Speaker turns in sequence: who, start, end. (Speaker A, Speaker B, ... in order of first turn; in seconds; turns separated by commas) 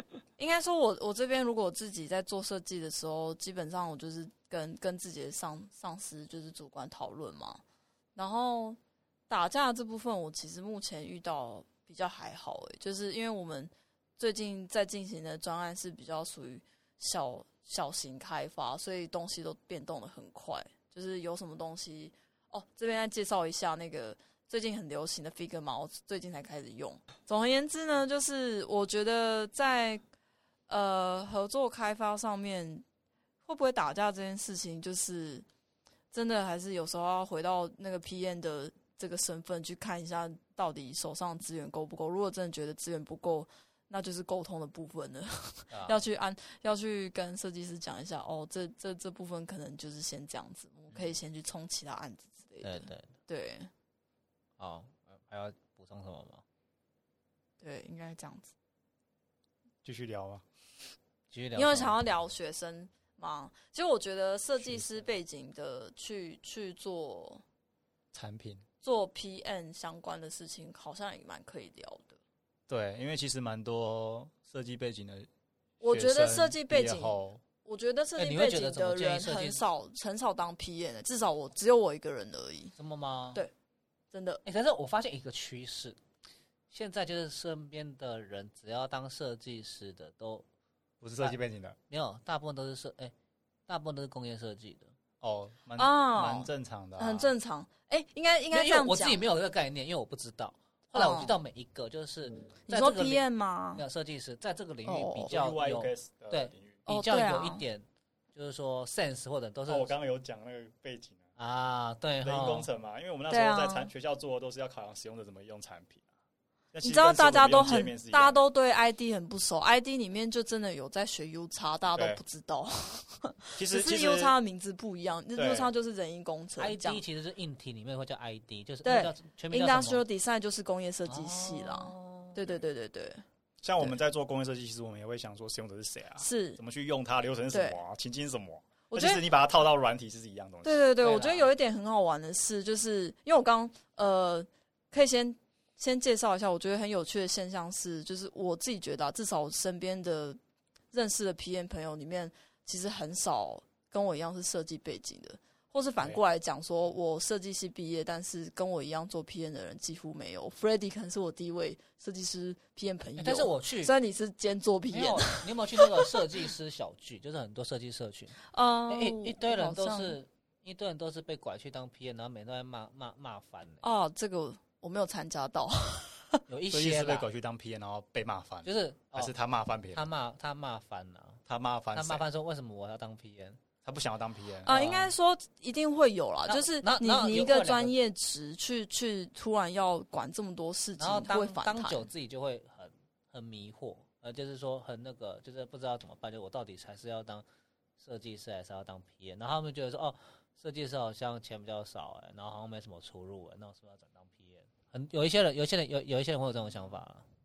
Speaker A: 0.4-7.6, Speaker A: 8.1-30.0, Speaker A: 30.7-32.8, Speaker A: 33.4-35.4, Speaker A: 36.1-53.7, Speaker B: 45.7-46.0, Speaker B: 50.9-51.1, Speaker B: 52.6-53.1, Speaker B: 54.6-56.4, Speaker A: 57.6-58.5, Speaker C: 59.8-60.4, Speaker B: 61.3-62.0, Speaker A: 61.5-67.4, Speaker C: 68.1-68.6, Speaker A: 68.8-72.2, Speaker C: 72.7-75.3, Speaker A: 75.8-82.7, Speaker C: 75.9-77.4, Speaker B: 78.2-79.6, Speaker B: 82.8-83.4, Speaker A: 84.1-84.4, Speaker B: 84.4-86.0, Speaker B: 86.7-90.4, Speaker C: 91.0-91.8, Speaker B: 91.9-93.1, Speaker B: 93.7-94.9, Speaker C: 95.2-97.3, Speaker A: 95.8-99.2, Speaker B: 98.5-103.2, Speaker A: 100.9-101.3, Speaker A: 102.7-103.8, Speaker B: 103.7-109.9, Speaker A: 104.8-105.3, Speaker C: 105.3-106.8, Speaker A: 106.9-107.6, Speaker C: 109.7-111.2, Speaker B: 111.4-112.7, Speaker C: 112.2-116.0, Speaker A: 113.3-113.9, Speaker C: 116.7-118.4, Speaker A: 116.8-127.0, Speaker C: 121.9-122.2, Speaker C: 123.6-124.3, Speaker C: 125.3-125.7, Speaker B: 126.6-130.0, Speaker A: 128.8-133.2, Speaker B: 131.1-132.4, Speaker C: 133.6-140.8, Speaker A: 136.2-136.6, Speaker A: 137.5-137.8, Speaker A: 138.9-139.2, Speaker A: 140.6-150.4, Speaker B: 141.0-141.5, Speaker A: 150.9-166.1, Speaker B: 163.2-163.9, Speaker B: 164.9-173.8, Speaker A: 168.5-170.2, Speaker A: 173.8-176.4, Speaker B: 176.5-177.3, Speaker C: 176.7-180.1, Speaker B: 178.6-179.3, Speaker B: 179.9-181.4, Speaker C: 181.5-182.2, Speaker B: 181.9-183.6, Speaker C: 183.8-184.7, Speaker A: 184.6-192.1, Speaker B: 184.6-185.1, Speaker B: 186.5-187.9, Speaker B: 191.0-197.4, Speaker B: 198.0-207.2